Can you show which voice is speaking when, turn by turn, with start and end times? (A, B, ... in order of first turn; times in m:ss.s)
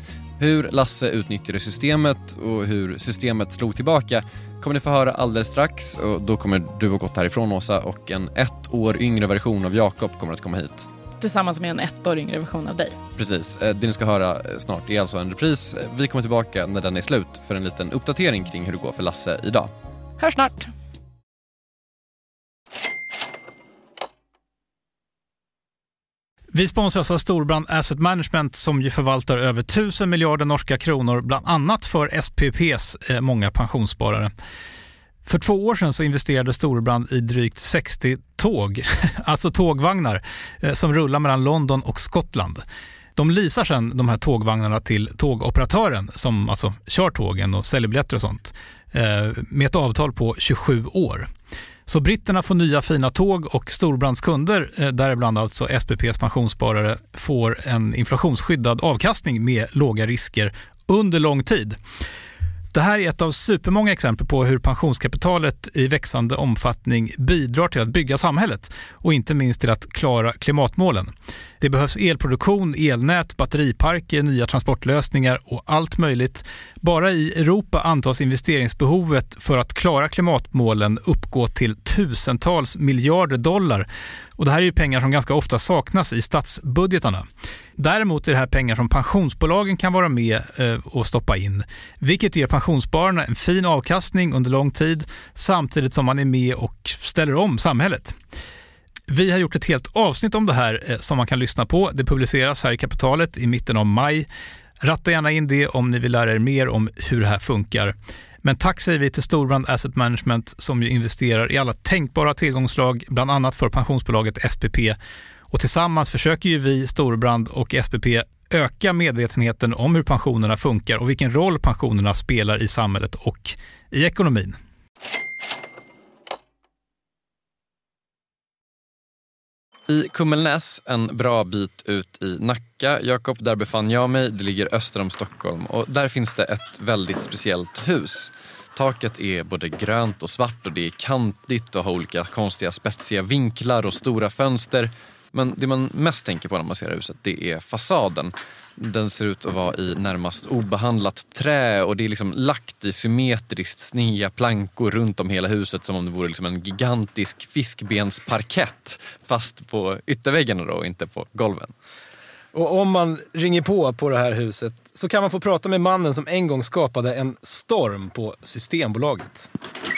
0:00.4-0:10.9 A
0:11.2-0:13.0 B
0:13.2-0:19.7 A
0:20.2-0:20.7 B
0:26.5-0:34.3 C
0:35.3-0:42.6 C
0:43.2-0:51.3 C
0:51.9-1:01.8 C
1:02.7-1:23.9 C
1:24.4-1:27.3 C
1:27.8-1:38.2 C
1:39.1-1:44.3 C
1:44.8-1:55.0 C
1:55.5-2:04.6 C
2:09.9-2:41.7 A
2:42.5-2:49.5 D